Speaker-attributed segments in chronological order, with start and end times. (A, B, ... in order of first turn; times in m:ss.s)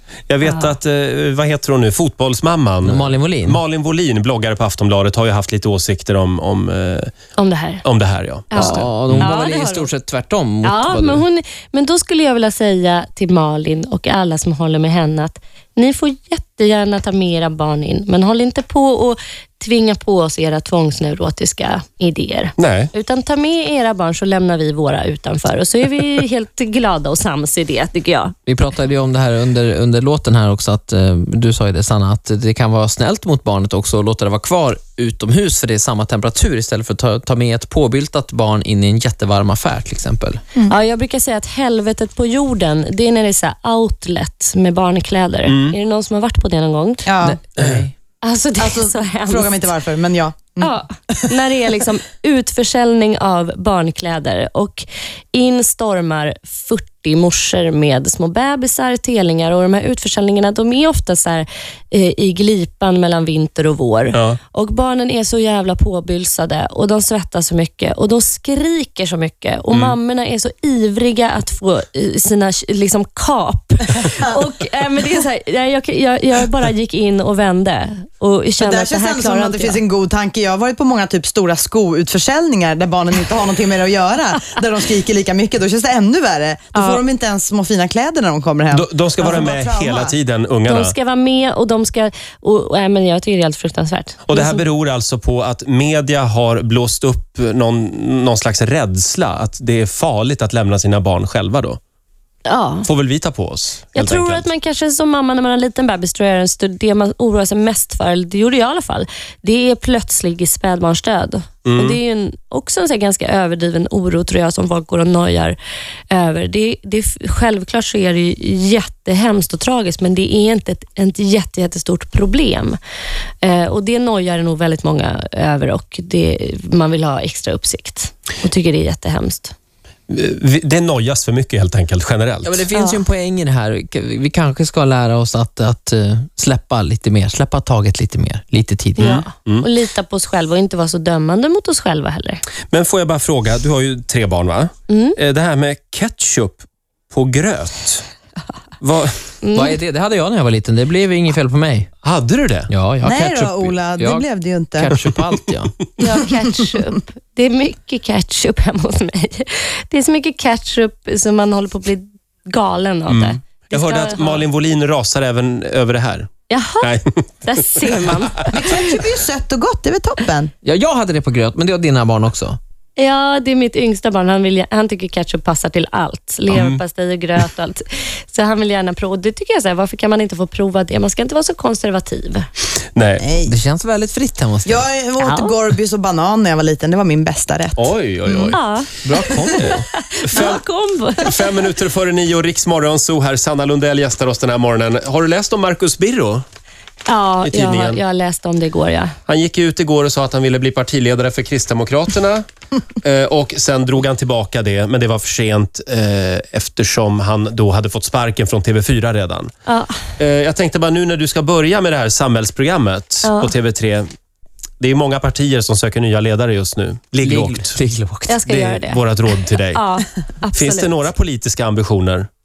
0:00.3-0:07.1 A
0:00.4-0:00.7 B
0:02.8-0:03.6 C
0:07.4-0:07.8 B
0:07.8-0:09.3 A
0:08.5-0:09.9 B
0:08.5-0:11.2 C
0:10.6-0:28.3 B
0:22.6-0:22.9 A
0:28.5-0:40.4 C
0:40.7-0:47.1 B
0:45.5-0:45.8 A
0:47.0-0:47.4 D
0:47.2-0:47.9 C
0:47.6-0:47.8 A
0:48.2-0:49.6 B
0:48.6-0:51.2 D
0:50.6-1:19.8 B
1:04.1-1:04.4 A
1:18.6-1:30.1 D
1:26.7-1:27.0 B
1:28.7-1:30.9 A
1:30.7-1:34.6 B
1:34.3-1:41.8 A
1:42.4-1:42.9 B
1:42.8-1:44.4 A
1:43.9-1:55.6 B
1:51.6-1:52.0 A
1:56.1-2:02.8 B
2:03.4-2:09.5 B
2:10.1-2:12.6 A
2:12.4-2:19.2 C
2:12.7-2:13.0 B
2:19.0-2:22.4 B
2:19.0-2:19.7 A
2:22.7-2:28.0 A
2:24.9-2:25.2 B
2:28.8-2:29.2 A
2:29.4-2:29.8 B
2:29.5-2:31.9 C
2:32.0-2:32.7 A
2:32.7-2:35.7 C
2:33.0-2:34.9 D
2:36.0-2:44.4 B
2:43.1-2:46.3 A
2:46.5-2:48.8 B
2:46.8-2:47.2 A
2:48.5-2:50.5 D
2:50.6-2:52.6 C
2:53.0-3:02.5 B
2:56.5-2:56.8 A
3:02.9-3:03.2 A
3:03.2-3:03.5 D
3:03.4-3:04.8 C
3:04.6-3:08.5 D
3:05.2-3:05.6 B
3:07.8-3:08.6 A
3:08.5-3:11.5 B
3:09.0-3:09.8 C
3:09.5-3:10.6 A
3:11.2-3:16.4 A
3:17.1-3:19.1 B
3:17.4-3:18.0 A
3:19.3-3:22.4 A
3:23.0-3:29.5 A
3:29.7-3:30.0 B
3:30.2-3:34.1 A
3:33.2-3:33.5 B
3:34.8-3:37.8 A
3:37.2-3:38.4 C
3:38.3-3:41.1 B
3:38.4-3:39.8 A
3:40.5-3:42.3 A